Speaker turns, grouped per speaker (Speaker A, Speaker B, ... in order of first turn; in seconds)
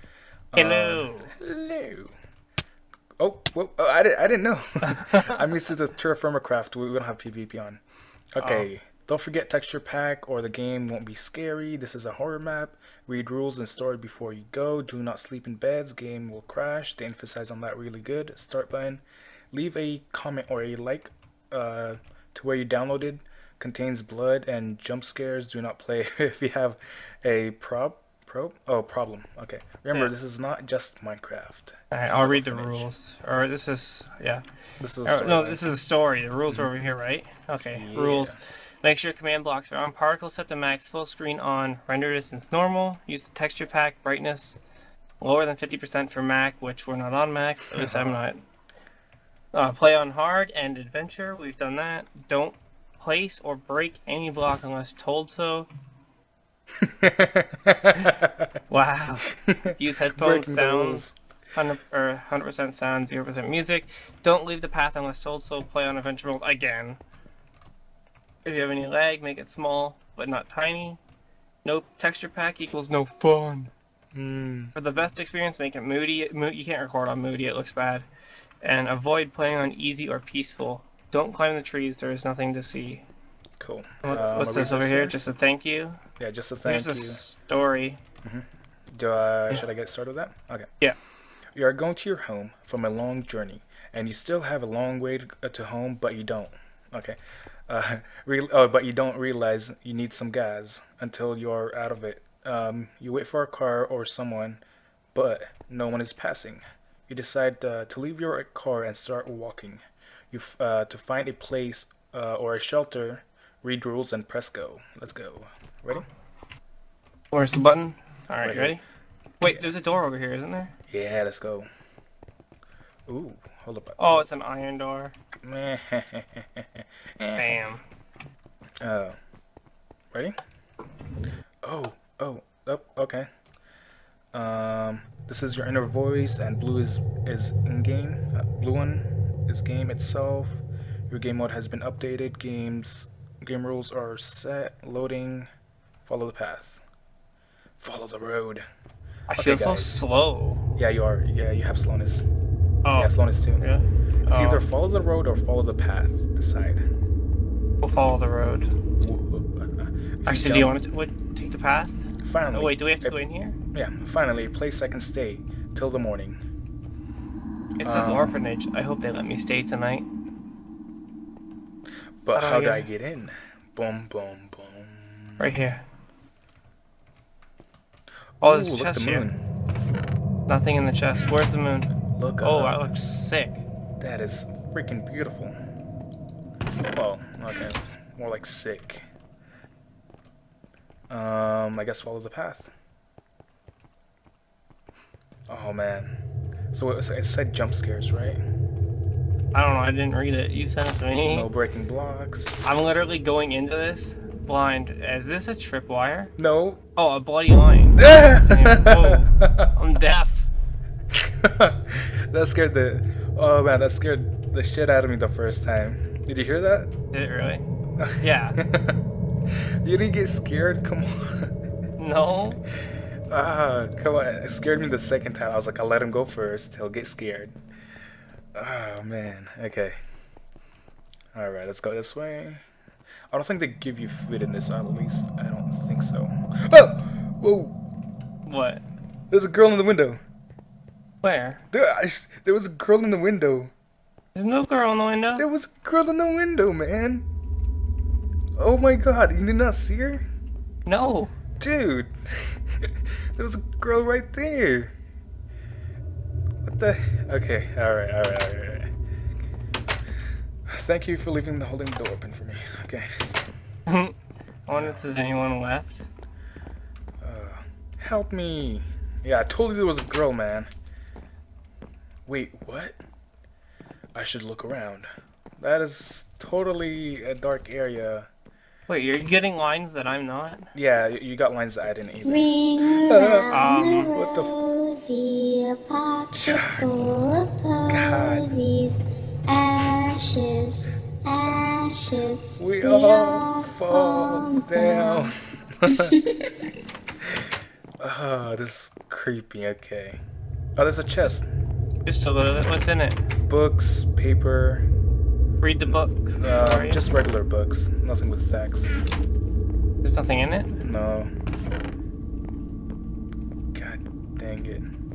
Speaker A: 0.5-2.1, 3.2-7.8, 8.3-32.9, 34.8-35.7, 37.7-38.4, 47.8-48.2, 56.8-58.5, 59.5-61.1, 74.1-74.7, 83.6-85.2, 86.2-87.2, 88.2-90.7, 91.5-104.6, 105.1-116.0, 118.4-118.8, 120.9-121.7, 123.1-124.3, 125.4-127.6, 128.8-129.2, 131.6-133.3, 134.3-145.5, 146.1-146.8, 147.8-148.7, 149.4-150.0, 150.8-152.2, 152.9-153.6, 154.3-156.8, 159.0-160.8, 162.2-163.2, 163.7-166.4, 167.8-168.4, 172.2-175.6, 178.4-179.4, 182.2-182.9, 184.0-185.6, 186.9-189.0, 191.1-192.7, 195.5-196.1, 196.7-198.4, 201.2-202.6, 206.4-206.8, 208.0-209.7, 211.1-216.9, 218.0-219.0, 219.8-221.5, 223.3-227.6, 228.6-230.0, 231.3-232.6, 233.3-237.8, 239.3-240.2, 241.7-243.7, 245.4-247.2, 248.6-250.2, 251.6-254.9, 256.6-258.9, 260.7-263.4, 264.7-265.1, 267.2-270.7, 272.2-273.0, 274.1-278.3, 280.8-283.5, 284.1-284.5, 286.3-286.9, 287.9-288.6, 292.6-296.1, 298.0-300.2, 300.8-301.4, 303.4-304.9, 305.9-308.9, 310.8-311.3, 313.7-314.9
Speaker B: 0.5-1.3, 4.9-5.4, 8.4-8.7, 31.9-34.4, 35.0-44.6, 45.2-48.4, 49.5-55.7, 58.7-67.0, 68.4-71.0, 71.6-73.7, 74.7-78.0, 78.6-83.0, 84.0-86.0, 86.6-88.0, 117.3-118.8, 119.4-120.7, 124.0-125.1, 127.4-127.8, 149.3-150.6, 152.8-154.6, 157.8-158.7, 160.2-163.6, 167.8-170.1, 172.3-172.9, 175.4-175.8, 178.4-179.3, 180.5-181.9, 182.4-183.6, 199.5-201.5, 202.6-206.3, 207.0-210.5, 217.1-217.7, 218.2-218.6, 222.0-222.6, 238.5-238.8, 241.2-241.6, 244.3-245.5, 250.9-251.3, 263.9-264.1, 264.7-266.1, 278.9-280.7, 283.5-284.1, 302.1-303.2, 305.6-307.0, 310.0-310.8
Speaker C: 282.2-295.3, 295.9-296.5